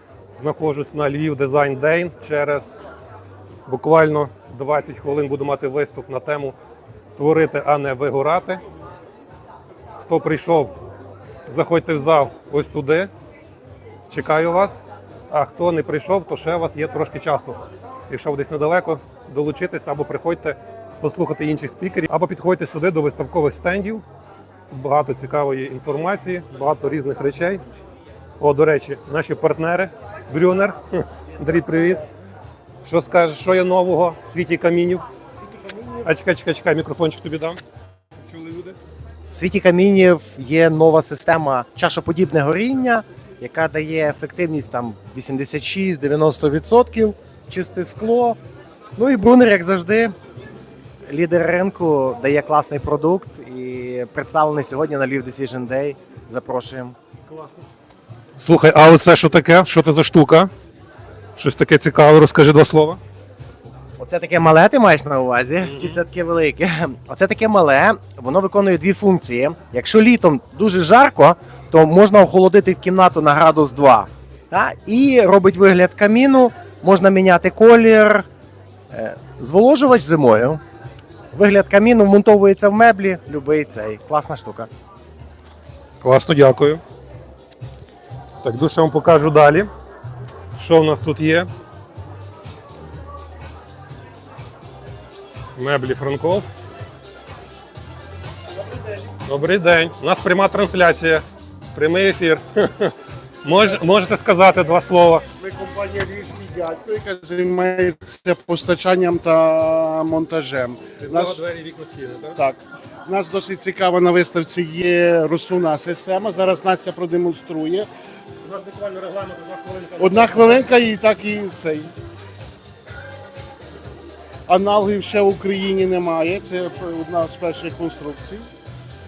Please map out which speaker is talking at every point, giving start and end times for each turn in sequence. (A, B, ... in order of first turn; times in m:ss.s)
0:00.3-0:02.8 A
0:03.6-0:06.6 A
0:07.2-0:08.6 A
0:10.0-0:10.7 A
0:11.5-0:13.1 A
0:14.1-0:14.8 A
0:15.3-0:24.0 A
0:24.7-0:27.6 A
0:28.4-0:32.0 A
0:32.8-0:35.0 A
0:35.9-0:37.6 A
0:38.3-0:38.7 A
0:39.3-0:48.4 B
0:49.0-0:50.1 B
0:51.1-0:57.0 B
0:57.3-0:57.6 A
0:58.4-1:00.5 A
1:01.4-1:03.0 A
1:04.0-1:18.2 B
1:05.6-1:06.0 A
1:18.9-1:20.6 B
1:21.3-1:24.7 B
1:26.0-1:26.8 A
1:28.4-1:29.7 A
1:30.6-1:31.5 A
1:35.6-1:36.5 A
1:39.2-1:45.2 A
1:45.4-1:51.4 C
1:51.0-1:52.4 A
1:52.4-1:57.9 C
1:58.4-2:00.9 A
2:00.0-2:02.0 C
2:04.5-2:08.5 C